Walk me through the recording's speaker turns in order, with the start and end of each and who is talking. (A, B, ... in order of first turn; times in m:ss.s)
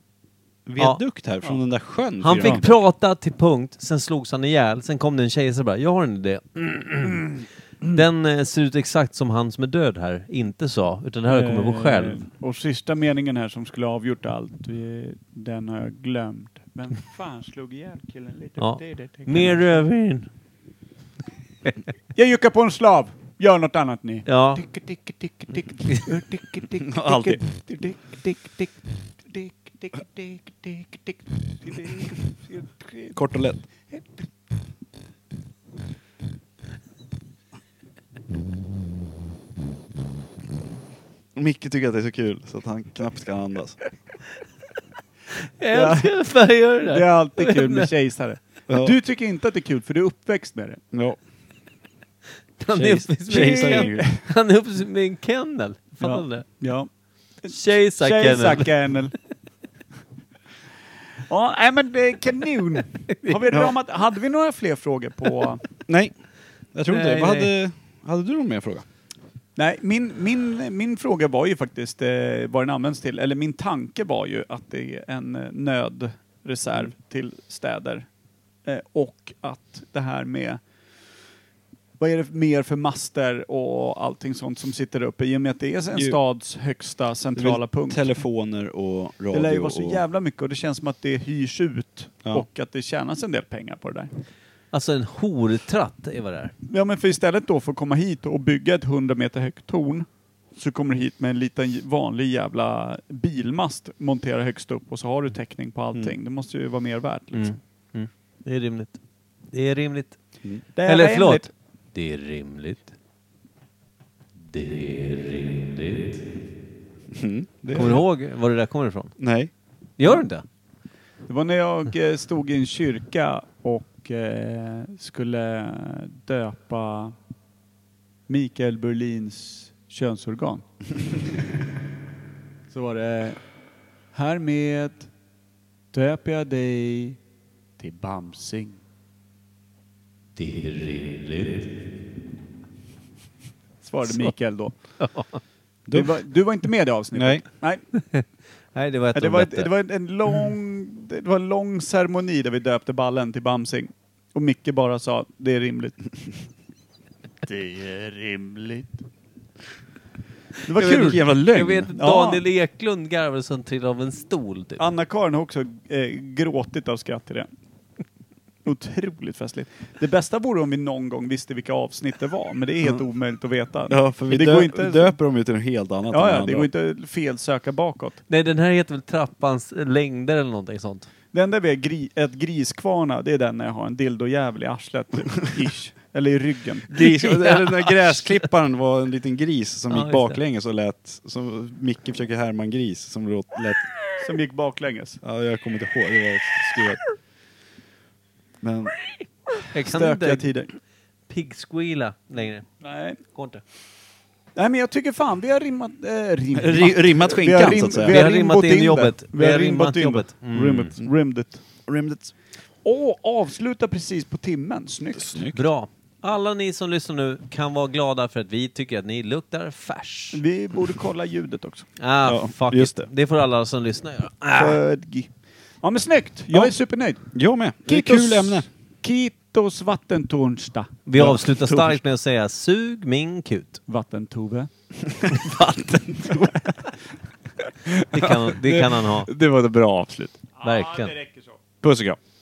0:00.6-0:02.7 A
0:02.2-0:12.2 B
0:11.3-0:19.8 C
0:18.6-0:20.3 B
0:22.1-0:28.7 C
0:24.3-0:24.6 B
0:26.8-0:27.4 A
0:29.3-0:33.2 C
0:33.1-0:33.6 A
0:41.3-0:43.8 A
0:45.4-0:47.9 B
0:45.7-0:46.1 C
0:46.8-0:50.8 C
0:48.7-0:49.0 A
0:50.9-0:51.2 A
0:52.6-0:56.5 B
0:52.7-0:54.1 A
0:53.3-0:54.2 C
0:56.0-0:56.9 C
0:57.4-0:59.1 C
0:57.5-0:58.7 B
1:01.3-1:05.6 C
1:05.9-1:06.1 A
1:06.7-1:08.8 A
1:06.9-1:07.5 B
1:09.6-1:18.1 C
1:18.6-1:20.6 C
1:22.0-1:28.1 C
1:27.4-1:30.0 A
1:29.3-1:34.1 C
1:34.7-1:36.5 B
1:36.7-1:47.6 C
1:47.3-1:49.0 B
1:49.5-1:50.2 B
1:50.8-1:51.5 C
1:50.8-1:52.9 B
1:54.5-1:56.3 B
1:57.1-1:58.0 A
1:57.7-1:59.1 B
1:59.2-1:59.5 A
2:00.0-2:00.4 B
2:01.3-2:07.1 C
2:08.3-2:10.6 C
2:12.7-2:13.4 C
2:14.1-2:15.1 C
2:15.9-2:17.2 C
2:17.8-2:18.8 C
2:20.4-2:21.8 B
2:23.8-2:24.8 C
2:25.0-2:25.4 B
2:25.9-2:26.1 A
2:25.9-2:27.8 C
2:27.1-2:27.4 A
2:28.7-2:29.7 B
2:29.1-2:36.0 C
2:37.4-2:39.0 C
2:40.6-2:41.2 C
2:40.8-2:44.8 B
2:40.8-2:41.9 A
2:41.9-2:42.4 C
2:44.8-2:47.5 C
2:48.6-2:55.2 C
2:53.9-2:56.7 A
2:56.1-2:58.2 C
2:58.3-3:01.1 B
3:01.3-3:06.9 C
3:06.9-3:13.9 A
3:07.0-3:08.3 B
3:09.9-3:10.4 B
3:14.2-3:15.2 C
3:15.2-3:17.0 A
3:18.6-3:18.9 A
3:19.7-3:20.5 B
3:19.8-3:20.7 C
3:21.3-3:22.7 B
3:22.8-3:23.2 C
3:23.3-3:23.6 B
3:24.6-3:31.6 C
3:26.6-3:28.2 A
3:28.0-3:30.9 B
3:31.8-3:32.3 A
3:32.8-3:35.4 C
3:35.2-3:35.6 A
3:35.5-3:40.4 B
3:40.3-3:41.9 C
3:42.0-3:44.8 B
3:42.2-3:43.1 A
3:44.5-3:45.3 C
3:45.8-3:47.2 C
3:46.5-3:46.8 A
3:47.3-3:48.7 A
3:47.8-3:52.0 C
3:51.1-3:53.8 B
3:53.9-3:54.7 C
3:55.0-3:56.8 A
3:57.8-4:00.4 A
3:58.1-3:59.3 B
4:00.6-4:01.6 C
4:00.6-4:01.1 B
4:01.8-4:02.2 A